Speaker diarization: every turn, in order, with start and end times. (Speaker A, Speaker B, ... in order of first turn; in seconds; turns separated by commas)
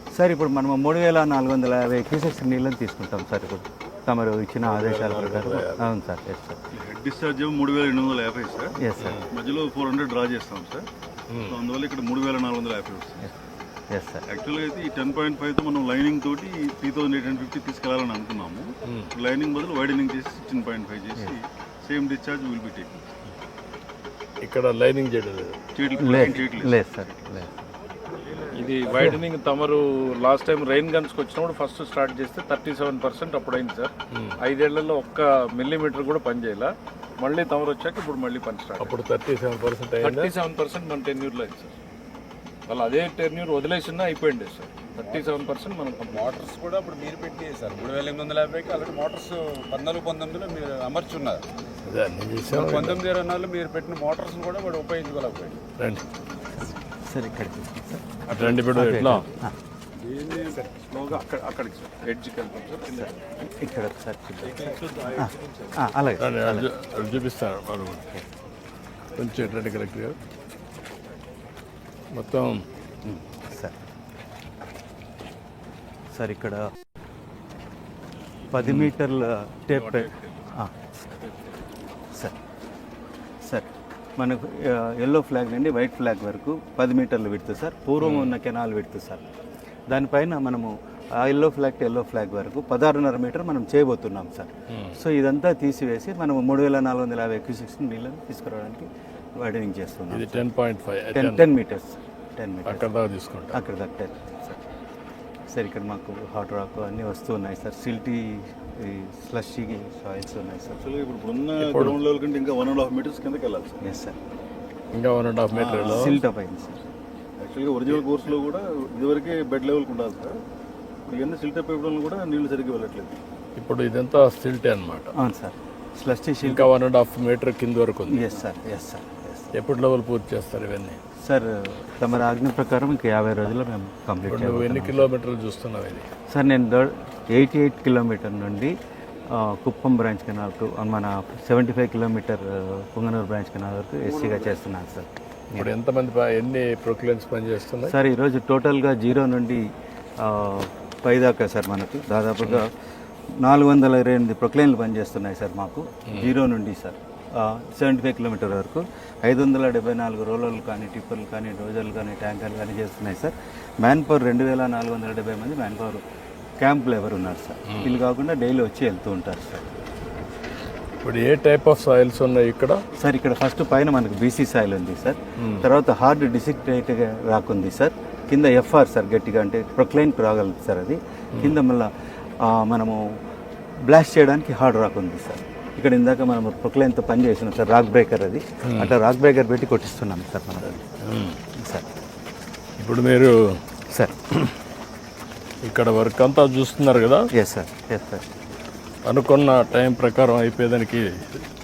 Speaker A: 0.1-6.6, Speaker B: 4.6-5.8, Speaker C: 6.7-8.7, Speaker A: 8.8-9.2, Speaker C: 9.3-10.9, Speaker B: 11.3-11.6, Speaker C: 11.4-13.3, Speaker A: 13.9-14.2, Speaker C: 14.3-23.1, Speaker B: 24.4-25.6, Speaker C: 25.7-26.8, Speaker A: 26.0-27.5, Speaker D: 28.3-38.9, Speaker A: 28.9-29.2, Speaker B: 38.8-40.3, Speaker D: 40.0-41.7, Speaker D: 42.7-46.4, Speaker E: 45.0-45.3, Speaker E: 46.1-51.4, Speaker B: 51.8-53.0, Speaker E: 52.5-55.6, Speaker A: 56.5-59.5, Speaker B: 58.3-59.2, Speaker D: 60.0-63.1, Speaker A: 62.9-66.7, Speaker D: 64.5-65.7, Speaker B: 66.2-68.1, Speaker B: 69.2-70.2, Speaker B: 72.1-72.6, Speaker A: 73.0-73.8, Speaker A: 76.1-76.7, Speaker A: 78.5-80.7, Speaker B: 78.6-78.9, Speaker D: 79.7-80.5, Speaker A: 83.4-89.2, Speaker B: 88.0-88.3, Speaker A: 89.9-100.5, Speaker B: 94.7-95.0, Speaker B: 100.1-101.5, Speaker A: 101.1-102.9, Speaker B: 102.7-103.6, Speaker A: 103.5-104.6, Speaker A: 105.5-110.8, Speaker C: 110.8-113.8, Speaker B: 111.6-112.0, Speaker A: 113.8-114.2, Speaker B: 114.9-116.2, Speaker C: 115.6-116.1, Speaker A: 115.6-116.8, Speaker C: 117.4-120.4, Speaker C: 121.0-123.2, Speaker B: 123.6-125.1, Speaker A: 125.1-126.7, Speaker B: 126.4-128.3, Speaker A: 128.1-129.5, Speaker B: 129.5-131.0, Speaker A: 131.2-135.1, Speaker B: 134.3-136.1, Speaker A: 136.3-138.7, Speaker A: 139.3-145.7, Speaker B: 145.6-147.9, Speaker A: 147.8-152.7, Speaker A: 153.4-166.0, Speaker A: 166.6-169.7, Speaker B: 167.7-167.9, Speaker B: 171.0-172.8, Speaker A: 173.0-183.0, Speaker A: 183.8-190.8, Speaker B: 188.6-188.9, Speaker B: 191.0-191.4, Speaker A: 191.6-191.8, Speaker B: 192.8-193.6, Speaker B: 195.6-197.3, Speaker A: 197.3-198.3, Speaker B: 199.1-201.4